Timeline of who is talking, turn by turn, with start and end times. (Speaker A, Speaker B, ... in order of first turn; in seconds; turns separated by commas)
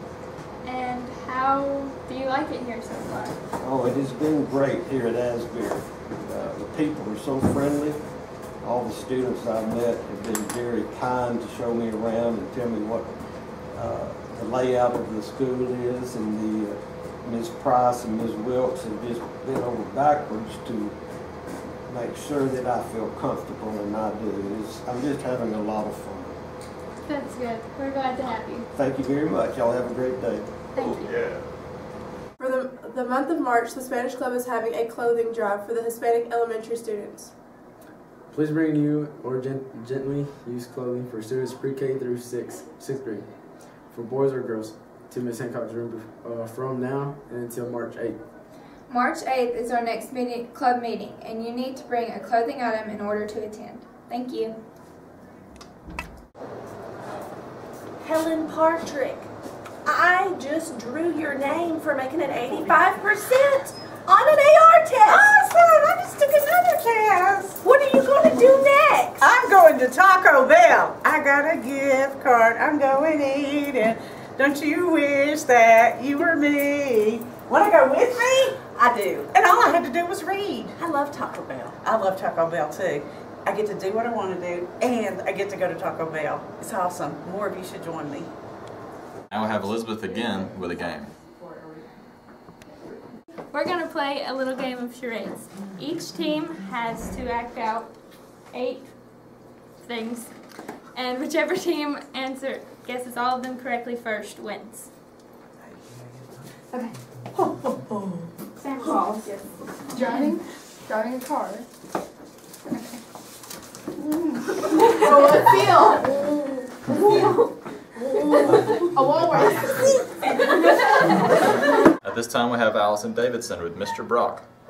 Speaker A: 0.6-3.4, Speaker B: 3.6-21.0, Speaker B: 21.9-26.4, Speaker A: 27.0-28.7, Speaker B: 28.7-30.5, Speaker A: 30.7-31.2, Speaker C: 32.4-37.3, Speaker D: 38.3-48.2, Speaker E: 48.9-54.5, Speaker F: 58.0-59.3, Speaker F: 59.8-66.8, Speaker G: 65.6-66.1, Speaker G: 66.8-67.6, Speaker F: 67.6-69.4, Speaker G: 69.2-80.7, Speaker F: 81.0-81.6, Speaker G: 81.5-88.3, Speaker H: 89.3-91.1, Speaker A: 93.5-104.9, Speaker E: 108.7-109.4, Speaker E: 109.9-111.6, Speaker E: 114.7-116.3, Speaker E: 116.9-117.4, Speaker E: 118.4-119.9, Speaker H: 122.0-124.4